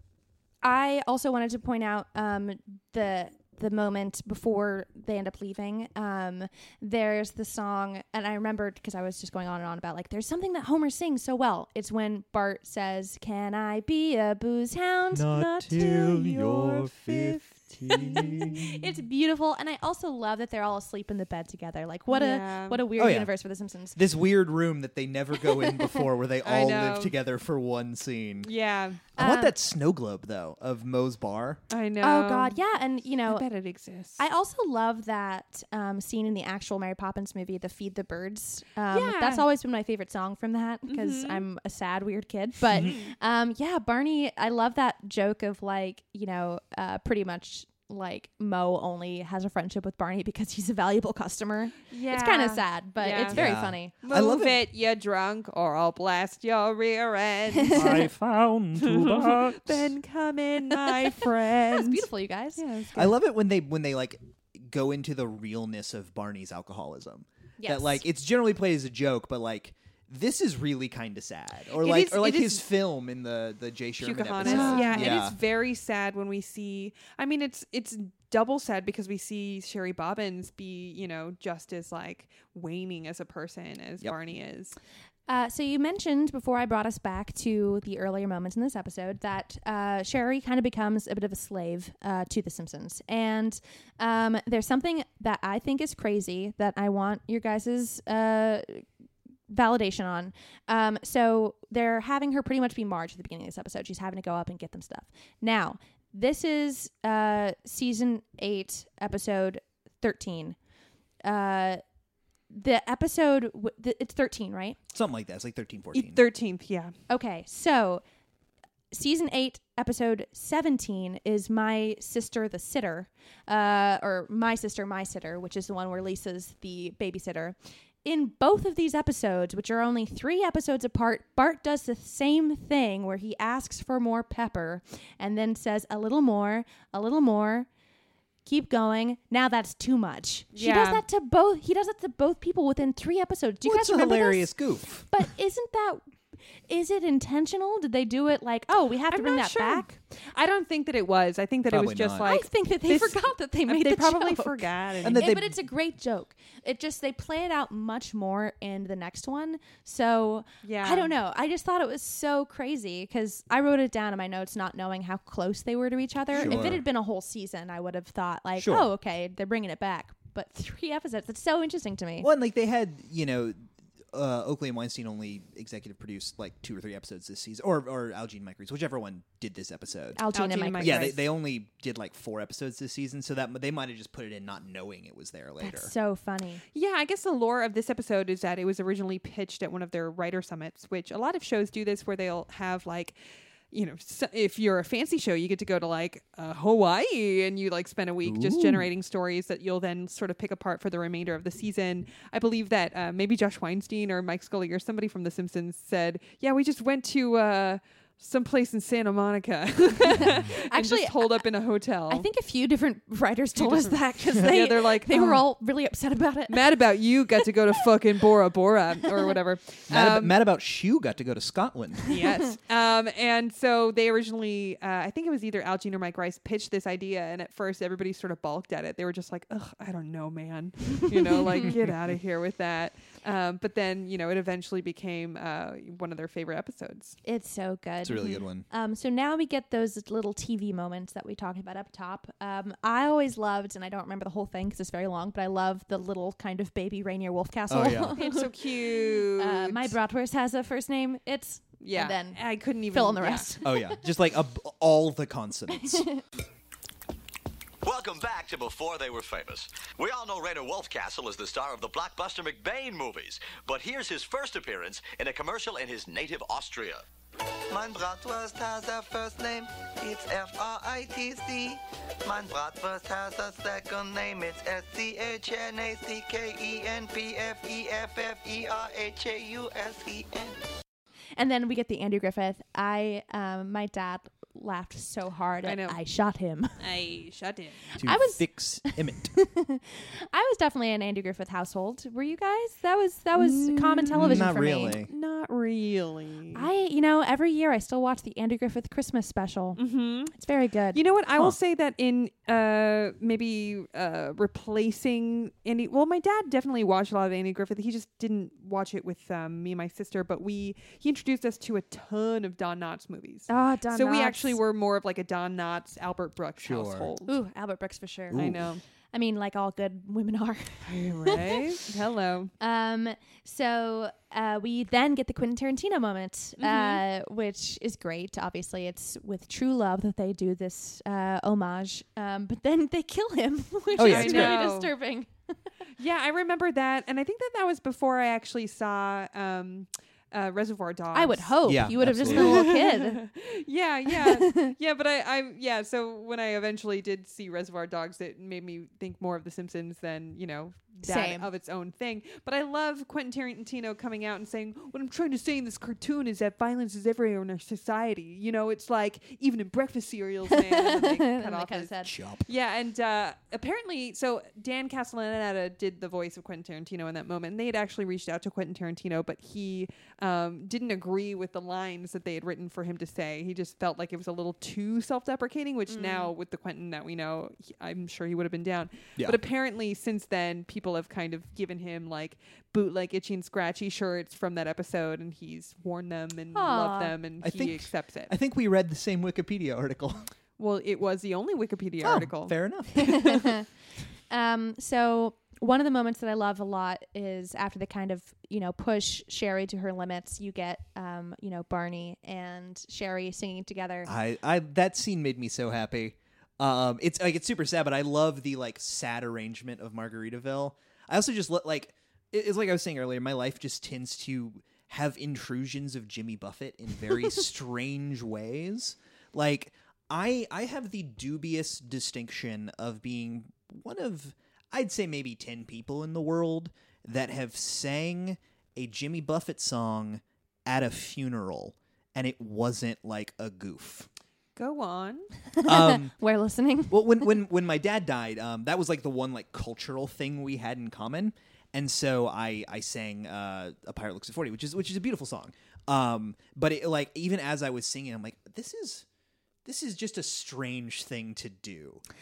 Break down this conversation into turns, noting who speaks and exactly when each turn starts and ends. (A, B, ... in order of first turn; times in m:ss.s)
0:00.6-0:17.0 A
0:15.1-0:18.7 B
0:17.9-0:24.0 A
0:17.9-0:18.4 C
0:22.1-0:22.8 C
0:23.0-0:23.3 B
0:24.0-0:28.5 B
0:26.4-0:27.2 C
0:28.4-0:29.0 C
0:29.2-0:31.6 B
0:29.2-0:29.5 A
0:31.7-0:32.6 C
0:32.0-0:33.4 A
0:33.3-0:34.2 C
0:34.2-0:53.9 A
0:38.9-0:39.5 C
0:40.9-0:41.4 C
0:42.7-0:43.1 C
0:51.9-0:53.4 C
0:53.3-0:54.6 B
0:54.0-0:58.1 C
0:57.6-0:58.0 A
0:57.7-0:59.9 D
0:58.8-1:03.1 C
1:01.7-1:02.6 A
1:03.0-1:15.4 B
1:07.6-1:08.0 A
1:11.8-1:12.6 C
1:14.0-1:24.8 C
1:14.4-1:15.2 A
1:25.3-1:38.8 A
1:39.5-1:50.6 A
1:51.2-1:51.8 A
1:52.5-1:54.8 A
1:54.9-1:56.2 B
1:55.9-1:56.9 C
1:57.1-1:58.0 A
1:58.9-2:17.7 A
2:18.5-2:24.6 A
2:20.5-2:21.0 C
2:23.6-2:25.2 B
2:25.1-2:26.0 A
2:26.7-2:30.0 A
2:29.1-2:35.4 C
2:31.7-2:32.3 B
2:32.2-2:52.3 A
2:35.0-2:35.6 B
2:40.6-2:41.1 C
2:46.3-2:46.7 C
2:46.4-2:46.8 B
2:48.6-2:48.9 B
2:52.2-3:00.2 B
3:00.2-3:01.2 A
3:00.3-3:01.2 C
3:00.8-3:05.9 B
3:05.6-3:06.6 A
3:06.7-3:13.2 C
3:13.7-3:32.3 C
3:18.2-3:18.9 B
3:30.2-3:31.4 A
3:32.1-3:36.6 A
3:33.6-3:35.5 C
3:36.5-3:40.4 C
3:39.9-3:42.1 B
3:42.1-3:57.2 C
3:57.2-4:14.0 A
3:58.0-3:58.6 B
4:07.7-4:08.2 B
4:08.2-4:09.9 C
4:11.8-4:13.5 C
4:13.6-4:16.1 B
4:15.8-4:16.2 A
4:17.8-4:27.0 E
4:27.7-4:40.6 F
4:41.4-4:46.8 A
4:45.6-4:46.0 C
4:46.8-4:47.9 C
4:48.0-4:49.4 B
4:48.0-4:55.0 A
4:53.4-4:56.7 C
4:54.1-4:55.1 B
4:56.5-4:59.8 A
4:59.8-5:00.3 C
5:00.3-5:01.0 A
5:00.9-5:17.4 C
5:13.5-5:14.6 A
5:16.6-5:17.1 B
5:17.3-5:18.5 A
5:18.3-5:18.7 B
5:18.3-5:18.8 C
5:19.1-5:21.6 A
5:20.9-5:22.5 C
5:22.6-5:35.3 A
5:26.6-5:27.0 C
5:34.0-5:34.9 C
5:34.0-5:34.6 B
5:36.0-6:28.3 C
5:41.1-5:43.2 A
5:41.6-5:42.7 B
5:44.1-5:44.7 A
5:51.0-5:51.5 A
6:00.5-6:02.1 A
6:02.1-6:02.5 B
6:15.9-6:16.3 A
6:26.5-6:27.2 A
6:27.4-6:30.3 B
6:30.6-6:33.3 C
6:32.0-6:33.4 B
6:33.2-6:33.6 A
6:34.3-6:44.1 A
6:44.1-7:14.1 B
7:14.6-7:15.3 C
7:15.6-7:17.0 A
7:15.6-7:16.1 B
7:16.9-7:29.0 B
7:29.6-7:32.0 B